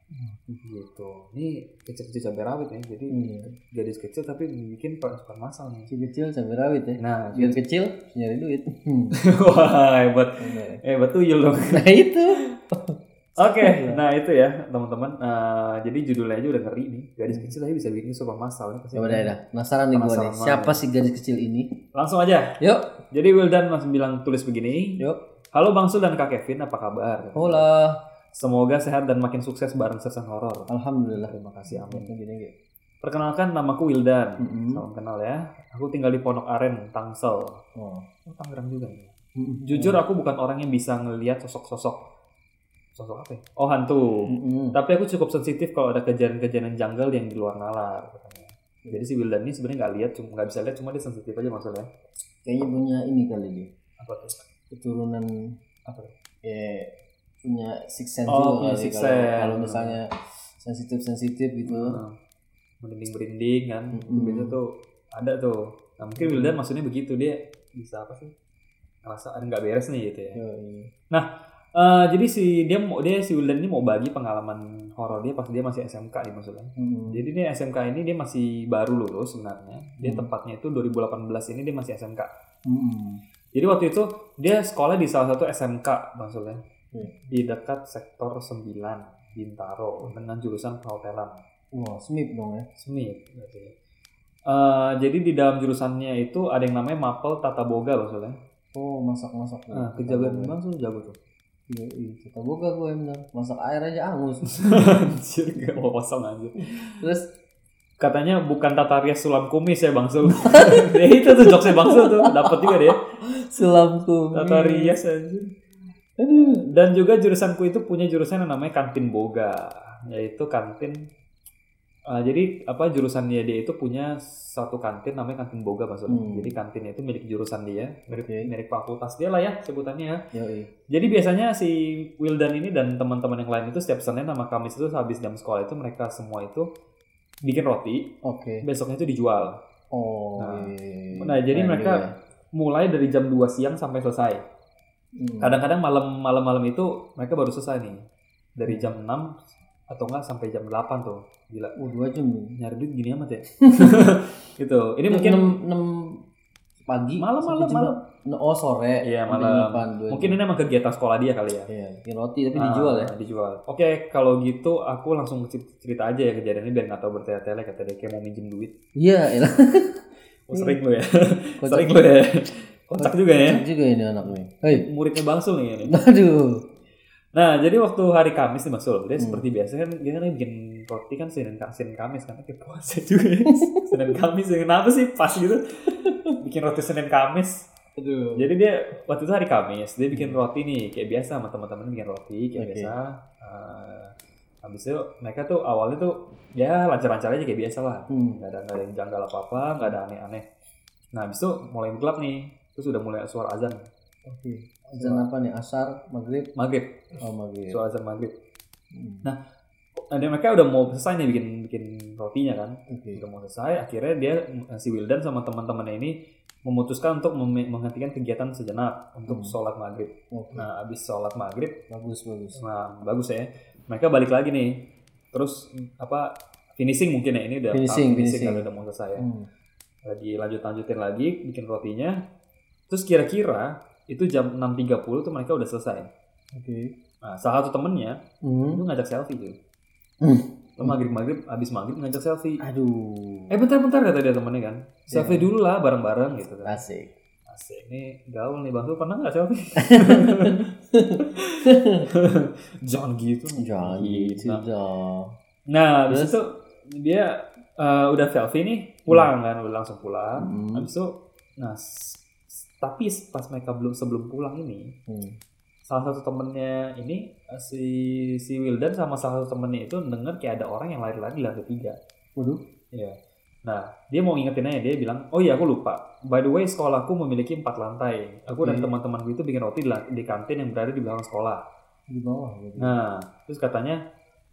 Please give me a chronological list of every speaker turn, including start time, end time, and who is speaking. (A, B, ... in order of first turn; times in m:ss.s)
0:00.2-0:00.6 A
0:00.6-0:05.9 B
0:03.1-0:03.6 A
0:05.9-0:09.2 A
0:07.0-0:07.6 B
0:09.2-0:11.8 B
0:10.4-0:10.8 A
0:11.7-0:14.0 A
0:13.4-0:19.3 B
0:18.9-0:21.7 A
0:19.9-0:20.8 B
0:21.9-0:22.6 B
0:22.6-0:23.0 A
0:23.1-0:25.0 B
0:25.5-0:27.7 B
0:27.3-0:28.0 A
0:28.3-0:32.1 B
0:30.7-0:32.6 A
0:33.0-0:37.6 B
0:34.4-0:34.8 A
0:37.8-0:38.1 A
0:38.3-0:39.1 B
0:39.4-0:40.0 A
0:39.6-0:42.0 B
0:43.0-0:51.9 B
0:44.3-0:44.8 A
0:52.4-0:53.7 A
0:54.0-0:54.4 B
0:54.7-0:55.5 A
0:55.8-0:56.1 B
0:56.4-0:56.9 A
0:57.4-1:02.0 A
0:58.3-1:00.0 B
1:01.6-1:02.2 B
1:02.8-1:08.3 B
1:03.9-1:04.6 A
1:06.2-1:06.6 A
1:09.0-1:10.4 B
1:10.4-1:10.9 A
1:11.1-1:22.3 B
1:16.8-1:17.2 A
1:20.0-1:20.3 A
1:22.7-1:23.2 A
1:23.6-1:26.6 B
1:27.2-1:31.4 B
1:31.7-1:32.7 A
1:32.8-1:33.7 B
1:34.5-1:38.4 B
1:38.8-1:40.6 A
1:39.7-1:41.2 B
1:41.7-1:44.8 A
1:44.5-1:46.9 B
1:46.6-1:47.3 A
1:48.0-1:53.0 B
1:50.3-1:54.9 A
1:54.4-1:55.5 B
1:56.2-1:56.7 A
1:56.6-2:01.1 B
2:02.1-2:10.2 B
2:06.1-2:06.6 A
2:08.1-2:08.5 A
2:10.3-2:10.7 A
2:10.9-2:16.7 B
2:17.4-2:18.1 B
2:18.2-2:18.6 A
2:18.6-2:19.6 B
2:19.9-2:22.1 A
2:20.4-2:22.0 B
2:22.5-2:24.4 B
2:25.2-2:25.6 A
2:25.4-2:28.0 B
2:28.6-2:29.3 B
2:28.7-2:28.9 A
2:29.9-2:31.7 B
2:31.8-2:32.6 A
2:32.6-2:35.4 B
2:33.6-2:34.1 A
2:35.1-2:36.2 A
2:36.9-2:40.4 A
2:37.2-2:38.0 B
2:39.0-2:41.7 B
2:41.7-2:43.1 A
2:42.5-2:48.7 B
2:49.0-2:50.8 A
2:50.5-2:53.7 B
2:51.6-2:52.0 A
2:53.0-2:54.9 A
2:54.7-2:56.0 B
2:55.9-2:56.6 A
2:57.3-3:07.7 B
2:59.2-2:59.4 A
3:03.5-3:04.1 A
3:05.9-3:06.4 A
3:08.0-3:08.5 A
3:08.4-3:20.5 B
3:10.1-3:10.4 A
3:12.6-3:12.9 A
3:18.1-3:18.4 A
3:21.1-3:23.9 B
3:24.3-3:26.5 A
3:25.0-3:25.3 B
3:26.6-3:27.2 B
3:27.2-3:27.8 A
3:27.7-3:28.3 B
3:28.9-3:29.3 A
3:30.0-3:41.8 B
3:32.9-3:33.2 A
3:39.3-3:39.6 A
3:40.3-3:40.7 A
3:41.9-3:42.6 A
3:42.6-3:44.8 B
3:45.3-3:49.2 B
3:47.7-3:48.7 A
3:49.2-3:49.5 A
3:50.0-3:52.2 B
3:52.9-3:56.1 B
3:56.6-3:56.9 A
3:57.2-3:58.2 B
3:58.4-3:58.8 A
3:58.7-3:59.6 B
4:00.2-4:01.0 A
4:00.8-4:02.6 B
4:02.6-4:03.6 A
4:03.5-4:06.7 B
4:05.1-4:05.5 A
4:06.6-4:07.1 A
4:07.5-4:10.7 B
4:09.8-4:12.1 A
4:11.2-4:14.6 B
4:13.6-4:15.4 A
4:15.7-4:24.9 B
4:16.1-4:16.4 A
4:20.4-4:20.9 A
4:25.1-4:25.4 A
4:25.9-4:32.0 B
4:32.4-4:32.6 A
4:32.9-4:41.6 B
4:38.6-4:38.9 A
4:42.1-4:43.0 A
4:42.8-4:44.0 B